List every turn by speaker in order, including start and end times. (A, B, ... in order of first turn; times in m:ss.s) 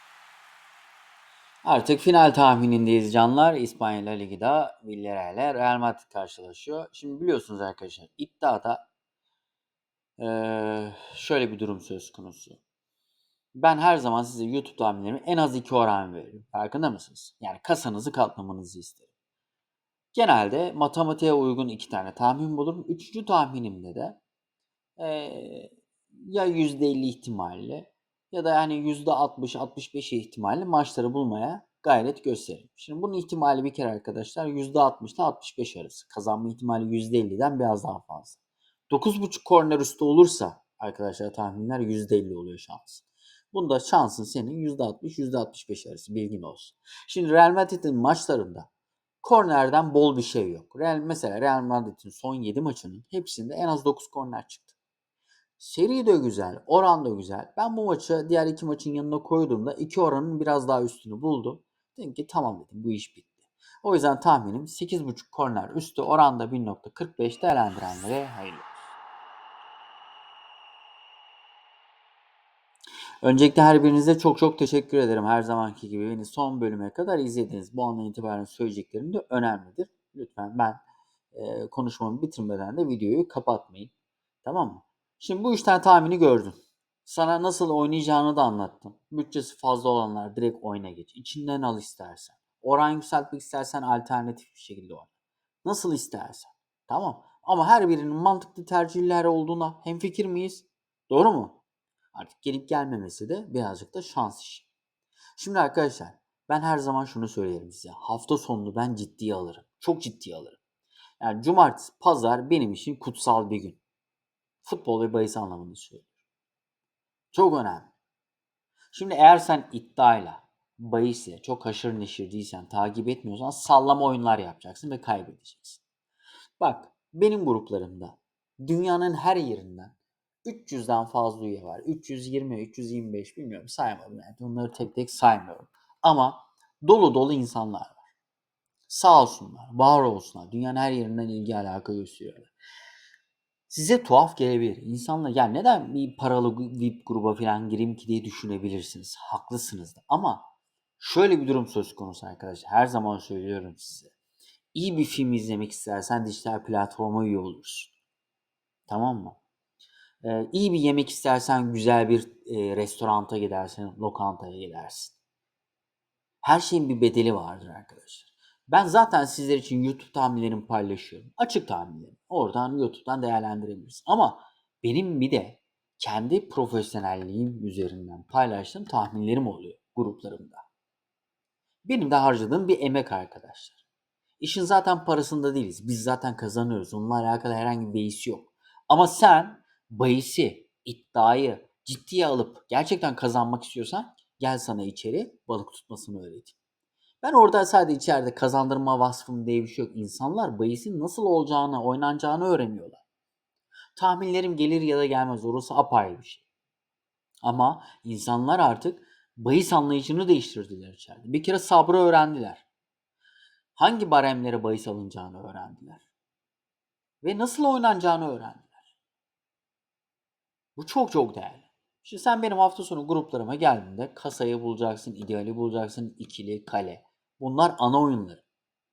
0:01.6-0:08.8 A
0:10.2-0:12.6 A
0:13.6-0:19.0 A
0:20.1-0:24.2 A
0:25.0-0:48.7 A
0:49.2-0:54.7 A
0:55.6-1:08.8 A
1:13.2-1:20.8 A
1:21.3-1:23.9 A
1:24.4-1:35.1 A
1:35.6-1:41.6 A
1:42.1-1:44.7 A
1:45.4-1:50.6 A
1:51.2-1:53.8 A
1:54.6-1:56.1 A
1:57.3-1:57.9 A
1:58.9-2:05.8 A
2:06.6-2:18.0 A
2:18.9-2:22.5 A
2:23.7-2:34.1 A
2:34.7-2:37.9 A
2:38.9-2:39.4 A
2:40.2-2:45.2 A
2:46.4-3:00.7 A
3:01.8-3:03.8 A
3:04.4-3:16.6 A
3:17.2-3:23.0 A
3:24.0-3:26.4 A
3:27.4-3:32.7 A
3:33.8-3:36.1 A
3:37.2-3:38.8 A
3:40.8-3:48.4 A